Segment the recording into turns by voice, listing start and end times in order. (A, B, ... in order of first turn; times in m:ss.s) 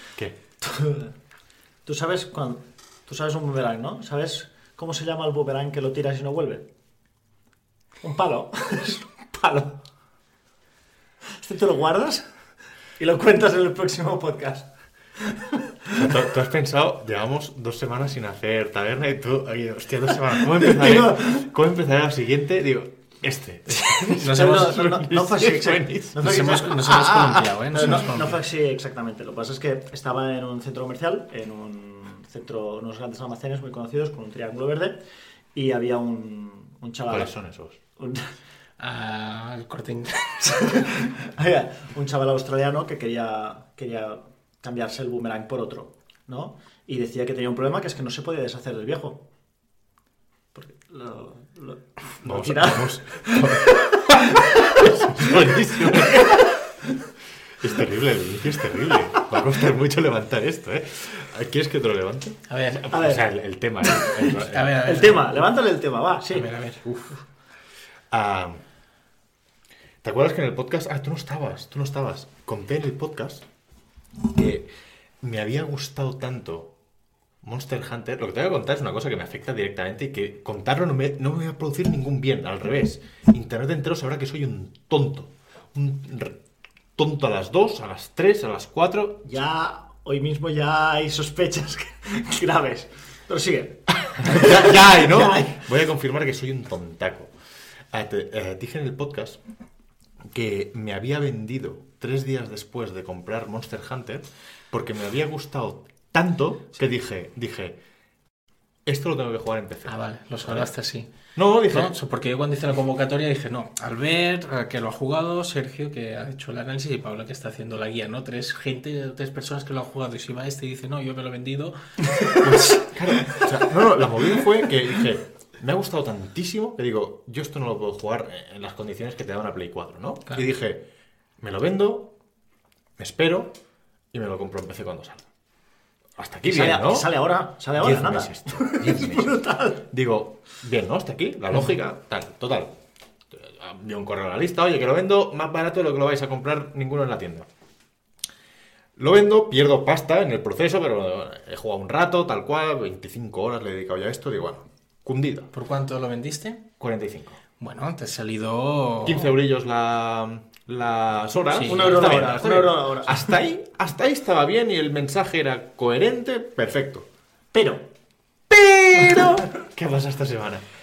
0:00.6-0:01.1 A
0:01.8-0:06.6 A
0:08.0-0:09.8 A
0:11.4-0:12.2 A
0:13.0-0:16.1 A
0:16.0-0:28.0 B
0:20.5-0:21.4 A
0:24.0-0:25.0 C
0:24.1-0:35.0 A
0:26.2-0:28.4 C
0:35.5-0:37.3 A
0:37.1-0:37.8 B
0:38.0-0:38.2 A
0:38.8-0:40.8 C
0:40.5-0:49.2 A
0:50.5-0:57.0 A
0:52.2-0:56.4 B
0:57.6-1:05.1 B
1:02.5-1:02.9 C
1:02.9-1:03.2 A
1:03.8-1:06.5 A
1:04.5-1:05.4 C
1:06.3-1:07.1 C
1:08.1-1:08.6 B
1:10.0-1:13.4 B
1:14.3-1:14.7 B
1:15.2-1:16.7 B
1:17.4-1:26.4 B
1:27.0-1:29.2 B
1:29.2-1:35.6 A
1:34.2-1:37.3 B
1:37.9-1:39.4 B
1:40.2-1:47.8 B
1:48.8-1:50.7 B
1:49.8-1:51.1 C
1:51.3-1:51.9 B
1:51.7-2:02.8 C
2:02.4-2:10.8 B
2:11.4-2:12.1 B
2:13.0-2:13.5 B
2:14.1-2:15.2 B
2:16.2-2:17.1 B
2:16.5-2:19.8 A
2:17.7-2:22.7 B
2:23.3-2:27.5 B
2:29.0-2:35.5 B
2:35.5-2:36.6 C
2:36.8-2:37.4 B
2:37.6-2:39.3 C
2:39.0-2:47.1 B
2:41.5-2:42.2 C
2:41.6-2:43.4 A
2:47.5-2:47.8 A
2:48.5-2:50.6 B
2:49.0-2:49.3 A